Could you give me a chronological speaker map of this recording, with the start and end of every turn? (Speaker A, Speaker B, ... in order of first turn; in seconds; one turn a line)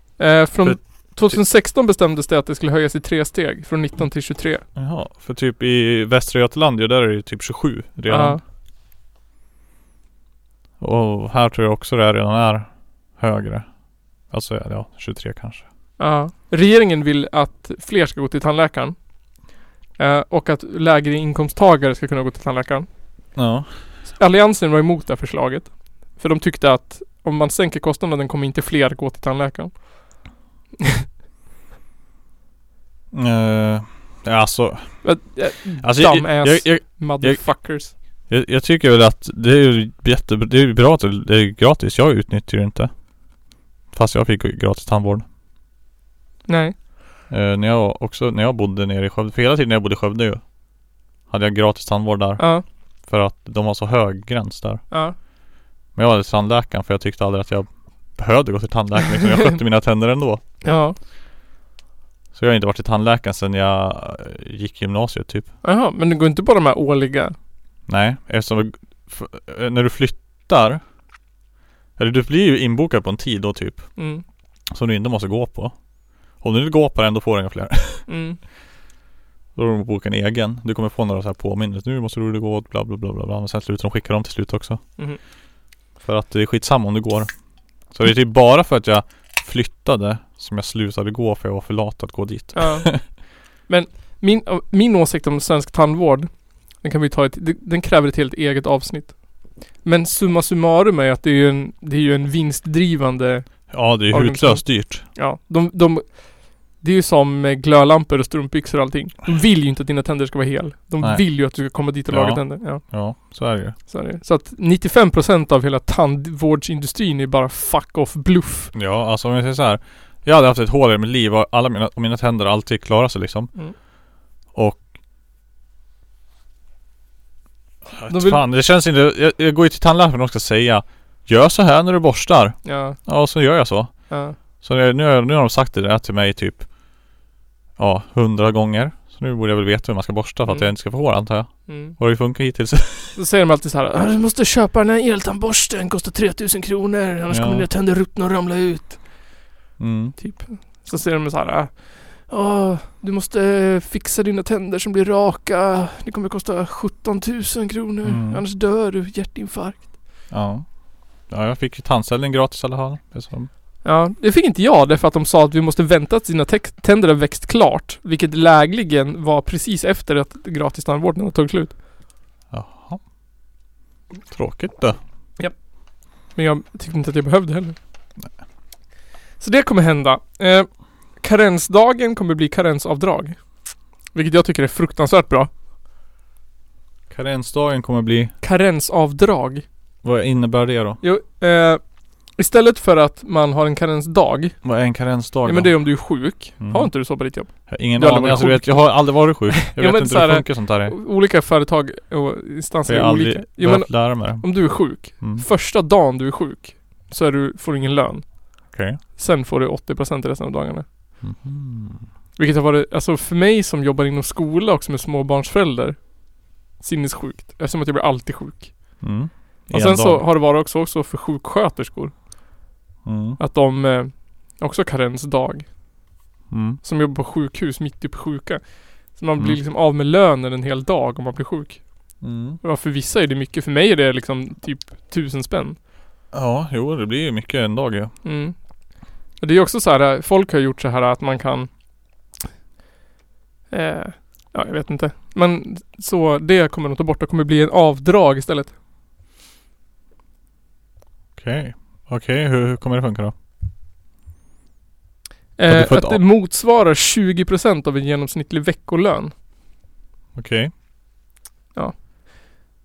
Speaker A: 0.2-4.6
Speaker B: 0.6-1.4
Speaker B: 4.8-8.4
Speaker A: 8.1-8.4
Speaker B: 10.8-13.7
Speaker B: 14.3-15.7
Speaker A: 16.0-19.0
Speaker A: 20.0-22.9
Speaker B: 23.4-23.7
Speaker A: 24.2-29.9
Speaker B: 33.1-35.2
Speaker A: 35.0-37.9
Speaker B: 35.8-42.9
Speaker B: 43.9-45.2
Speaker A: 46.5-46.8
Speaker B: 47.3-50.4
Speaker B: 51.3-54.8
Speaker A: 52.4-52.6
Speaker B: 56.0-60.4
Speaker A: 60.6-61.0
Speaker B: 62.3-65.5
Speaker A: 65.6-67.3
Speaker B: 67.9-70.8
Speaker B: 72.0-73.9
Speaker A: 74.0-74.2
Speaker B: 74.7-75.8
Speaker B: 76.4-78.1
Speaker A: 78.1-78.4
Speaker B: 79.5-84.8
Speaker B: 86.0-87.3
Speaker B: 87.9-93.0
Speaker A: 92.5-93.2
Speaker A: 93.7-99.2
Speaker A: 99.8-112.8
Speaker B: 103.7-105.1
Speaker B: 111.0-113.8
Speaker A: 113.9-118.7
Speaker B: 118.7-123.5
Speaker B: 124.5-124.8
Speaker B: 127.8-136.7
Speaker A: 128.1-128.4
Speaker A: 132.7-133.0
Speaker A: 134.1-134.4
Speaker B: 137.8-143.2
Speaker A: 140.5-140.7
Speaker A: 141.7-142.0
Speaker A: 143.2-149.0
Speaker B: 147.3-147.7
Speaker B: 149.8-150.2
Speaker A: 150.2-159.9
Speaker B: 158.1-158.4
Speaker B: 160.3-160.7
Speaker B: 161.3-163.5
Speaker A: 163.8-171.8
Speaker B: 172.5-173.0
Speaker B: 174.3-175.0
Speaker A: 176.3-177.8
Speaker A: 179.4-183.4
Speaker A: 184.1-185.5
Speaker B: 187.1-188.3
Speaker A: 188.4-189.7
Speaker B: 190.0-191.0
Speaker A: 191.0-191.8
Speaker A: 192.3-194.6
Speaker B: 194.6-197.0
Speaker A: 195.4-210.9
Speaker B: 197.5-200.9
Speaker B: 202.9-205.5
Speaker B: 208.7-209.0
Speaker B: 211.2-212.1
Speaker A: 212.4-216.1
Speaker A: 216.8-219.0
Speaker B: 219.0-220.3
Speaker A: 219.7-222.2
Speaker B: 223.1-223.4
Speaker A: 223.4-225.7
Speaker B: 226.5-226.8
Speaker A: 226.8-232.1
Speaker B: 232.2-232.6
Speaker A: 232.6-235.8
Speaker B: 236.3-238.1
Speaker A: 238.2-238.6
Speaker A: 239.4-241.7
Speaker A: 243.7-248.7
Speaker B: 251.4-253.3
Speaker A: 255.6-259.3
Speaker B: 255.7-256.2
Speaker B: 260.4-260.7